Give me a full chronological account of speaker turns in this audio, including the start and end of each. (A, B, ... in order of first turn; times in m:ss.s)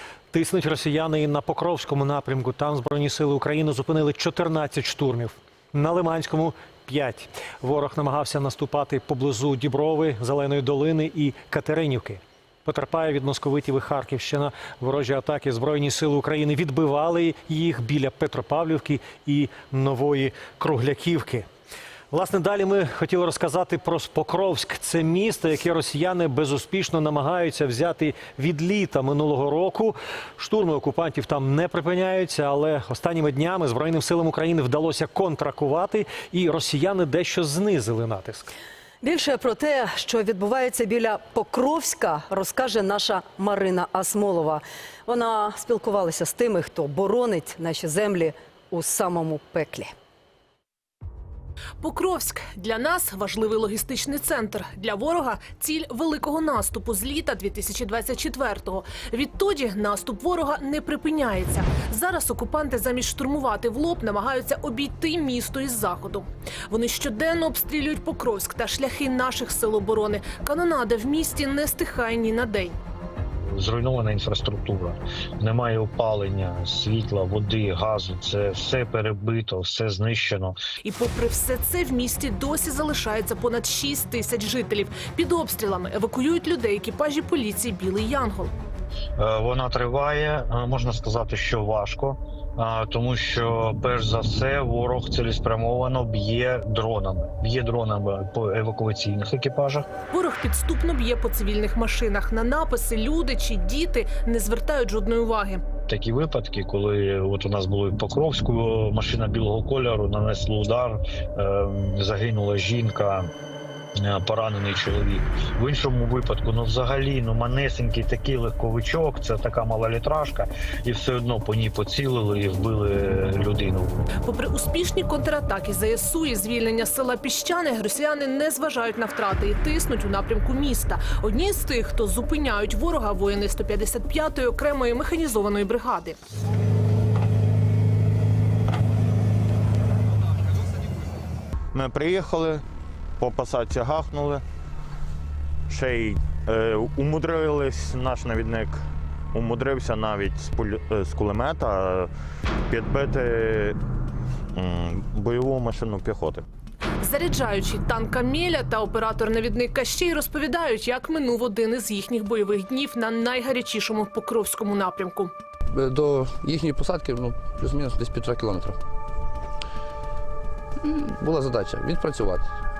0:00.3-0:21.5 A
0:22.1-0:38.5 A
0:39.0-0:49.9 B
0:51.8-1:12.8 C
1:13.5-1:20.6 D
1:20.8-1:28.5 C
1:29.2-1:39.9 D
1:40.1-1:45.6 C
1:45.9-1:53.3 D
1:54.0-2:04.0 D
2:04.2-2:16.2 C
2:21.7-2:22.6 E
2:23.2-2:24.4 E
2:25.7-2:28.8 E
2:29.3-2:32.1 E
2:32.7-2:33.8 E
2:34.5-2:36.4 E
2:37.0-2:45.3 C
2:45.7-2:48.8 F
2:50.8-2:52.5 F